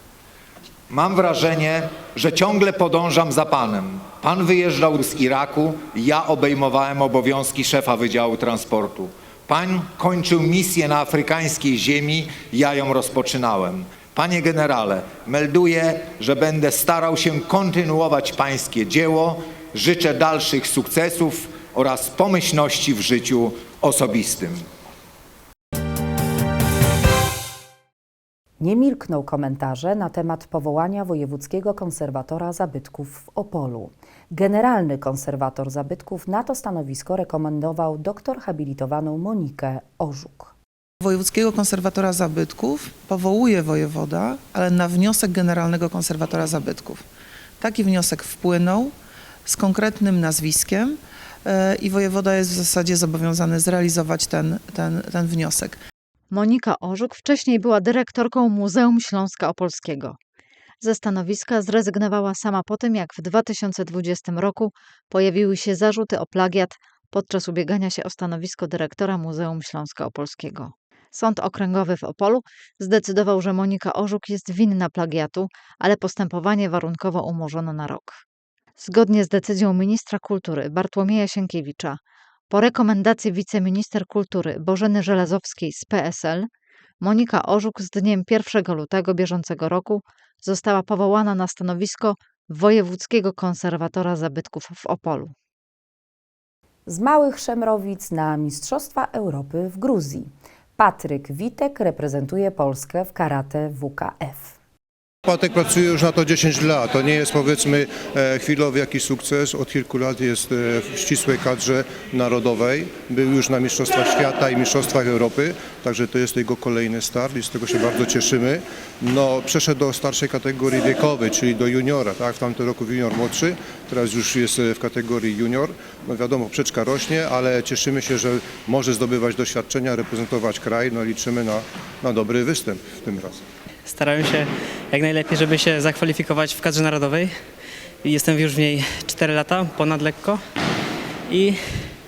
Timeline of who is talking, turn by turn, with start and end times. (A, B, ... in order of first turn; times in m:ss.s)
0:00.9-0:24.7 A
0:28.6-0:40.5 B
0:41.0-0:47.0 C
0:47.6-0:48.9 C
0:49.5-0:51.0 C
0:51.5-0:55.8 C
0:56.3-1:00.2 D
1:00.8-1:18.2 D
1:18.8-1:22.0 D
1:22.5-1:26.5 D
1:27.0-1:35.3 D
1:36.9-1:44.6 B
1:45.3-2:13.4 E
2:13.8-2:17.4 F
2:18.0-2:20.4 F
2:21.3-2:21.9 F